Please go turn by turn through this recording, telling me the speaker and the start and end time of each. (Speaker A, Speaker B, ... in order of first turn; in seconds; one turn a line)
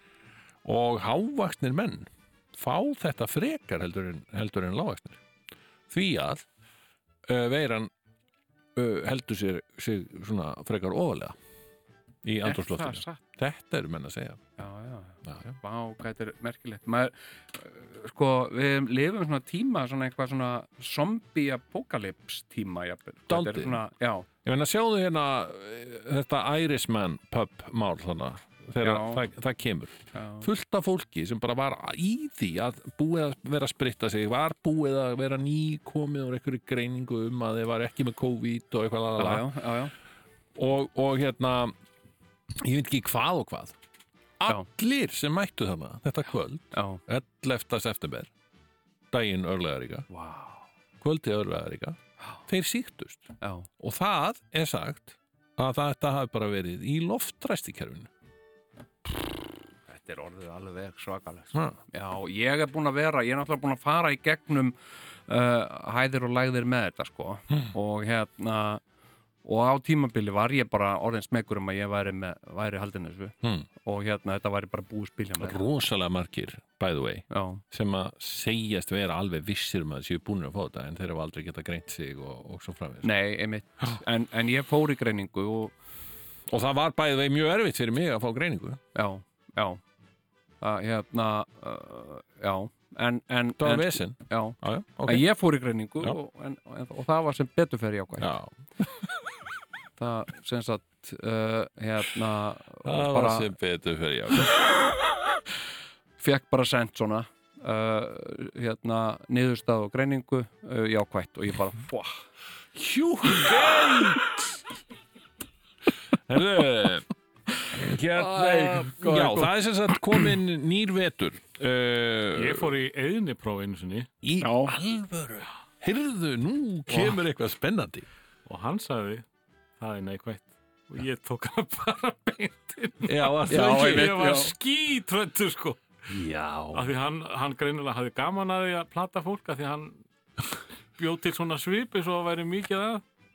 Speaker A: 0.6-5.2
Speaker A: 5.9-6.4
Speaker A: 7.3-7.9
Speaker A: 8.7-11.4
Speaker A: 12.2-14.4
Speaker B: 12.4-13.2
Speaker B: 14.6-24.2
Speaker A: 15.2-15.5
Speaker A: 23.3-23.8
Speaker A: 24.4-39.5
Speaker B: 28.8-29.2
Speaker B: 30.1-30.5
Speaker B: 39.2-39.9
Speaker A: 40.5-41.7
Speaker A: 42.5-43.8
Speaker A: 44.4-48.3
Speaker B: 46.7-47.0
Speaker A: 49.1-50.1
Speaker B: 50.1-50.6
Speaker A: 51.0-58.1
Speaker B: 53.4-53.7
Speaker B: 59.9-64.8
Speaker A: 61.5-61.8
Speaker B: 65.3-68.8
Speaker B: 69.4-75.6
Speaker A: 75.4-83.1
Speaker B: 77.3-77.6
Speaker B: 83.0-85.7
Speaker A: 86.5-88.8
Speaker B: 88.9-89.8
Speaker B: 90.6-98.3
Speaker A: 93.6-95.2
Speaker A: 98.2-99.1
Speaker B: 100.0-103.5
Speaker A: 102.8-104.5
Speaker B: 106.2-112.2
Speaker A: 112.7-114.4
Speaker A: 116.3-117.1
Speaker A: 117.7-122.7
Speaker C: 118.2-119.3
Speaker B: 118.8-119.3
Speaker C: 122.3-124.1
Speaker A: 124.2-128.1
Speaker B: 124.4-124.7
Speaker C: 128.4-129.2
Speaker C: 129.8-136.0
Speaker A: 133.0-134.3
Speaker B: 133.5-134.5
Speaker A: 136.1-136.9
Speaker C: 136.7-140.0
Speaker C: 141.0-143.0